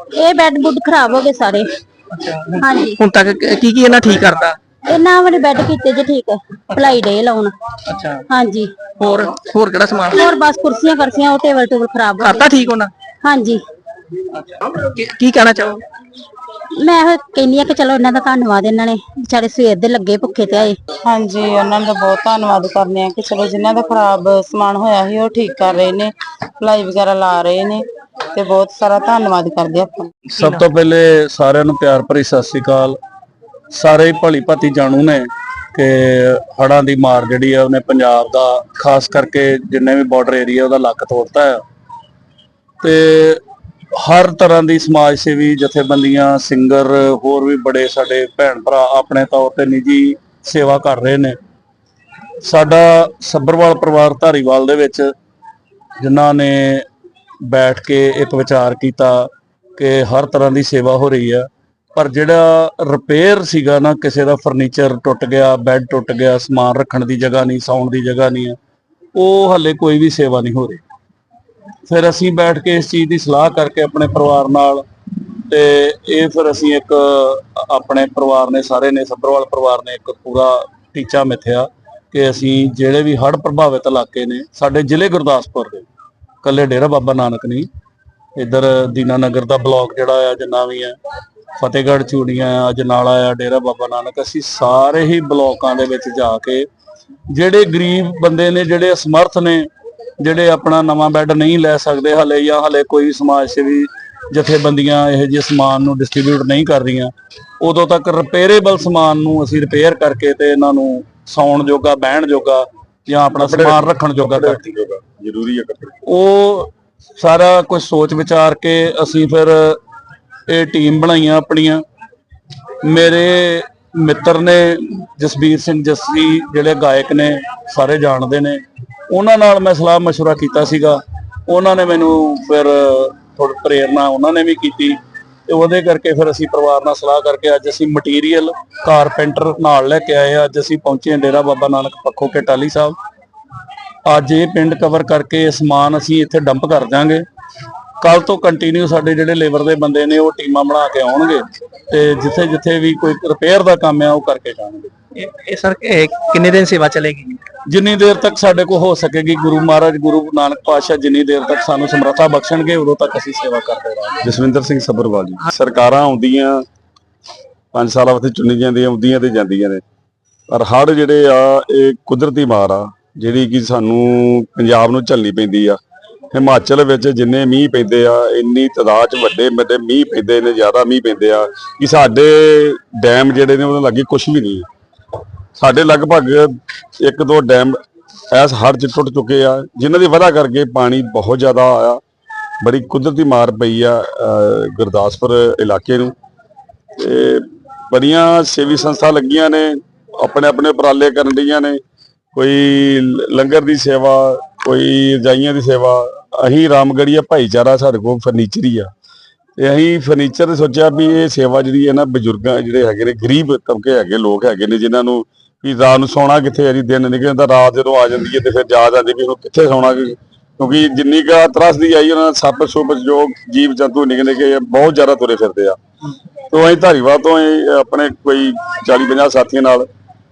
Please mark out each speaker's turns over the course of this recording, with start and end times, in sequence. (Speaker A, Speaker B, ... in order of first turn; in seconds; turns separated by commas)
Speaker A: 0.1-1.7, Speaker B: 2.1-4.6, Speaker A: 2.6-3.0, Speaker A: 4.9-7.5, Speaker B: 7.9-8.2, Speaker A: 8.3-8.7, Speaker B: 9.0-10.2, Speaker A: 10.1-12.5, Speaker B: 12.2-12.9, Speaker A: 13.2-13.6, Speaker B: 14.3-15.8, Speaker A: 16.8-20.8, Speaker C: 21.1-30.1, Speaker D: 30.3-33.0, Speaker D: 33.7-41.6, Speaker D: 42.8-43.4, Speaker D: 43.9-51.4, Speaker D: 52.4-55.1, Speaker D: 56.0-56.9, Speaker D: 57.4-68.6, Speaker D: 69.1-70.8, Speaker D: 71.9-74.8, Speaker D: 75.4-85.8, Speaker D: 86.4-87.7, Speaker D: 88.3-91.0, Speaker D: 91.6-96.7, Speaker D: 97.3-99.7, Speaker D: 100.2-114.6, Speaker E: 113.3-116.0, Speaker D: 116.0-119.8, Speaker D: 120.5-121.8, Speaker D: 122.8-142.9, Speaker D: 144.0-147.2, Speaker D: 148.0-154.9, Speaker B: 155.1-157.4, Speaker D: 157.7-164.3, Speaker E: 164.2-166.6, Speaker E: 167.7-169.8, Speaker E: 170.5-175.8, Speaker E: 176.3-184.7, Speaker E: 185.6-187.8, Speaker E: 188.3-192.0, Speaker E: 192.6-196.1, Speaker E: 197.0-201.8, Speaker E: 202.3-208.9, Speaker E: 209.6-225.8, Speaker E: 226.5-229.9